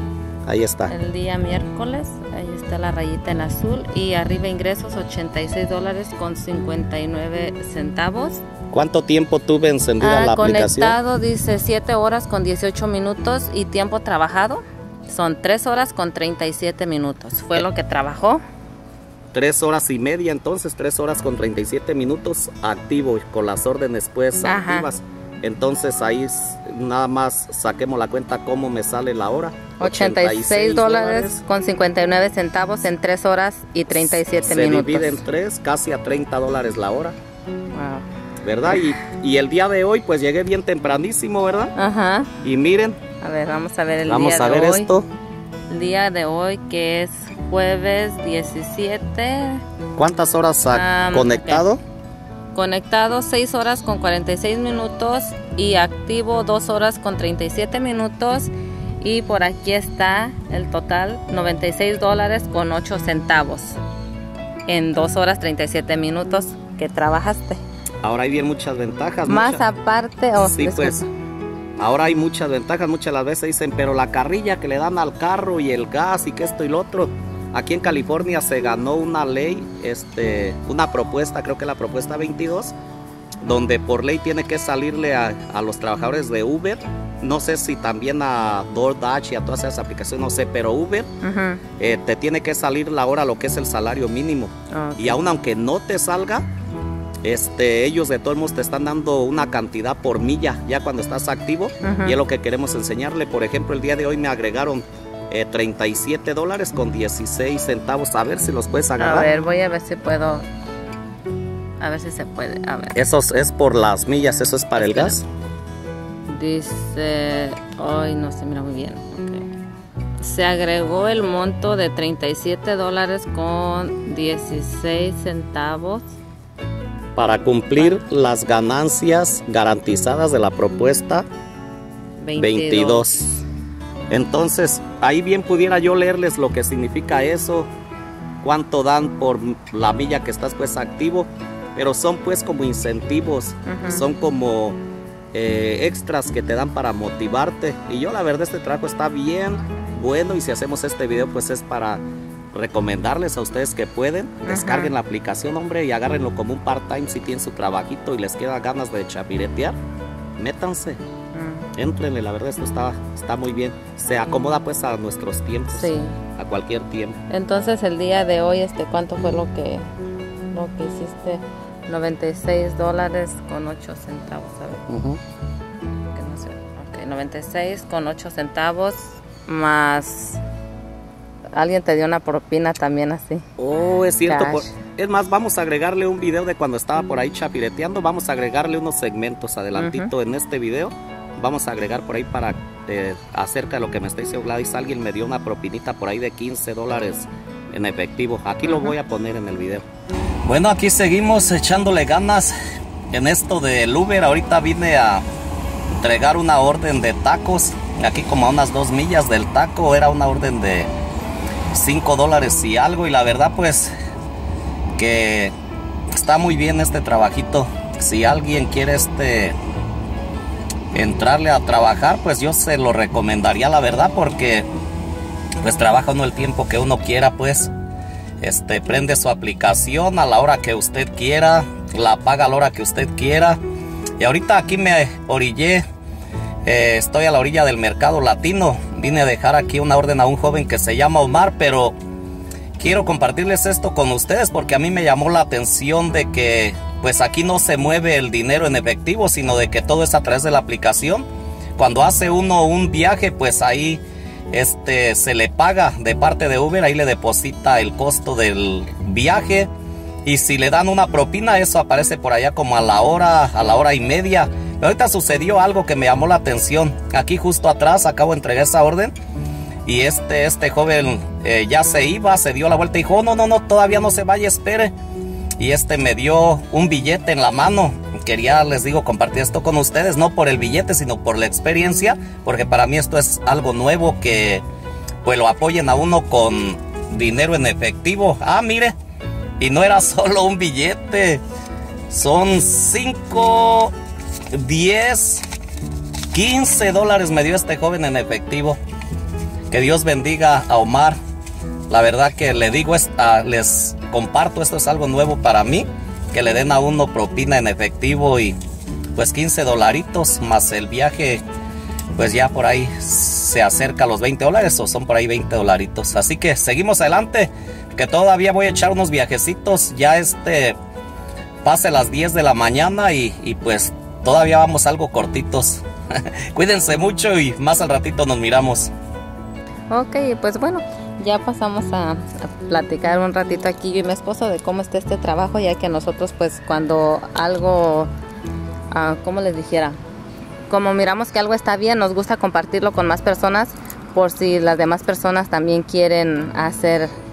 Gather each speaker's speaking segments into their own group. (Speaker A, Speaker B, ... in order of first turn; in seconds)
Speaker A: 0.5-0.9, 8.7-11.0, 19.3-31.4, 33.9-37.1, 38.4-41.7, 42.4-43.0, 44.0-45.0, 50.0-51.8, 68.0-69.6, 70.4-71.0, 71.8-82.7, 83.4-91.1, 91.8-96.5, 97.2-109.3, 112.9-115.2, 127.2-131.2, 132.4-133.3, 134.1-137.7, 138.4-144.8, 145.3-152.0, 152.5-159.8, 160.4-161.0, 161.8-167.2, 174.9-175.2, 183.6-199.8, 200.4-202.5, 203.1-205.2, 205.9-210.9, 211.7-213.9, 214.9-215.5, 216.1-219.6, 220.9-224.7, 225.6-227.7, 228.4-233.6, 234.2-235.8, 236.6-241.9, 242.8-251.2, 251.8-259.7, 260.2-269.1, 269.9-274.9, 275.6-284.6, 285.2-288.9, 289.6-291.4, 292.1-293.9, 294.5-295.4, 296.3-298.8, 299.7-301.2, 301.9-308.5, 309.1-311.4, 312.1-320.8, 321.6-328.9
Speaker B: 0.9-8.4, 10.0-18.4, 24.4-24.9, 29.8-35.2, 37.7-38.0, 41.7-42.4, 43.2-44.9, 45.7-49.6, 50.7-51.6, 52.5-63.8, 64.7-67.6, 69.3-71.1, 91.2-91.6, 94.7-95.2, 101.8-102.2, 109.0-110.4, 111.8-113.0, 114.8-115.2, 116.3-119.4, 120.2-126.1, 132.2-133.4, 143.7-144.0, 154.4-154.9, 161.3-161.7, 165.7-166.2, 167.3-169.8, 170.5-174.9, 176.1-180.4, 181.5-183.4, 184.3-184.7, 189.7-190.1, 198.7-198.9, 329.9-338.1, 338.9-340.0, 340.7-347.1